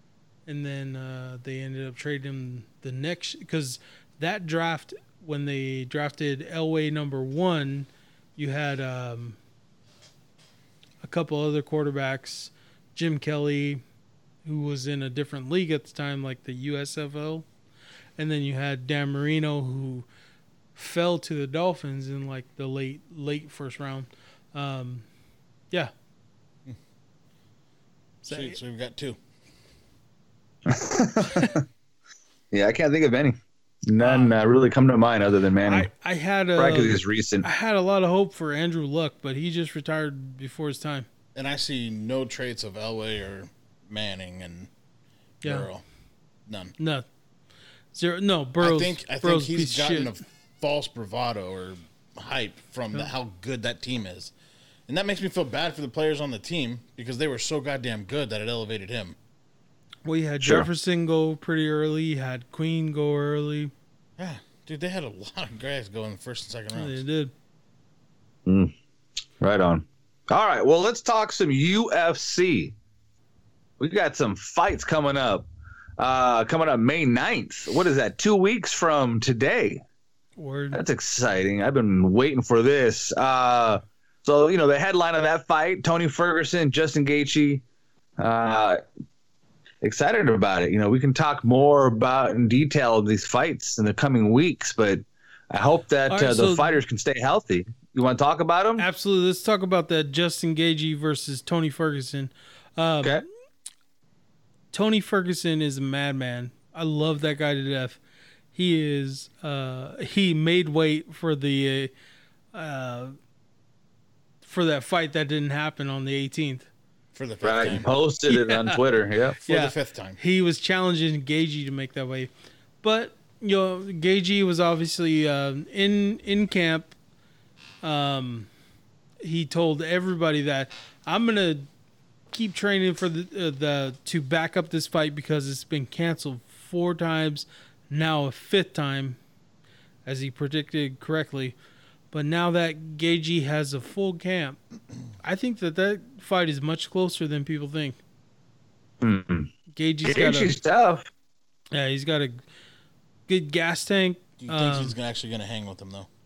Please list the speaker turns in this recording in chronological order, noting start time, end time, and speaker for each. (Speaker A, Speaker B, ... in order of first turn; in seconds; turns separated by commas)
Speaker A: 0.5-9.4, Speaker A: 11.0-13.8, Speaker A: 14.4-17.5, Speaker A: 18.2-20.1, Speaker A: 20.8-25.1, Speaker A: 28.2-28.6, Speaker B: 28.3-29.2, Speaker C: 30.7-31.6, Speaker C: 32.5-35.9, Speaker A: 34.0-34.3, Speaker A: 35.6-41.1, Speaker C: 36.6-37.5, Speaker B: 41.4-44.7, Speaker A: 45.4-45.7, Speaker B: 45.4-45.8, Speaker B: 46.5-46.7, Speaker A: 46.8-47.0, Speaker A: 47.9-50.2, Speaker B: 48.6-54.3, Speaker B: 54.9-59.2, Speaker A: 60.0-63.7, Speaker C: 60.4-60.7, Speaker B: 64.2-67.0, Speaker A: 66.7-67.3, Speaker C: 68.5-68.7, Speaker C: 69.4-72.7, Speaker C: 73.8-75.5, Speaker C: 76.0-79.8, Speaker A: 80.4-80.8, Speaker C: 80.7-87.6, Speaker C: 88.2-88.8, Speaker C: 89.8-98.9, Speaker A: 96.1-96.8, Speaker A: 98.8-103.2, Speaker A: 104.7-108.0, Speaker A: 108.5-111.9, Speaker A: 112.5-113.2, Speaker A: 114.4-116.7, Speaker B: 117.1-117.9, Speaker C: 117.4-119.4, Speaker A: 118.3-118.8, Speaker B: 119.5-120.2, Speaker A: 119.5-122.3, Speaker A: 122.8-126.9, Speaker A: 127.8-128.5, Speaker A: 129.2-131.7, Speaker A: 132.3-139.2, Speaker A: 140.1-141.6, Speaker A: 142.1-144.6, Speaker A: 145.2-148.0, Speaker C: 149.0-149.5, Speaker A: 149.7-150.5, Speaker C: 150.1-151.1, Speaker A: 151.7-152.4, Speaker A: 153.3-154.9, Speaker B: 154.4-156.1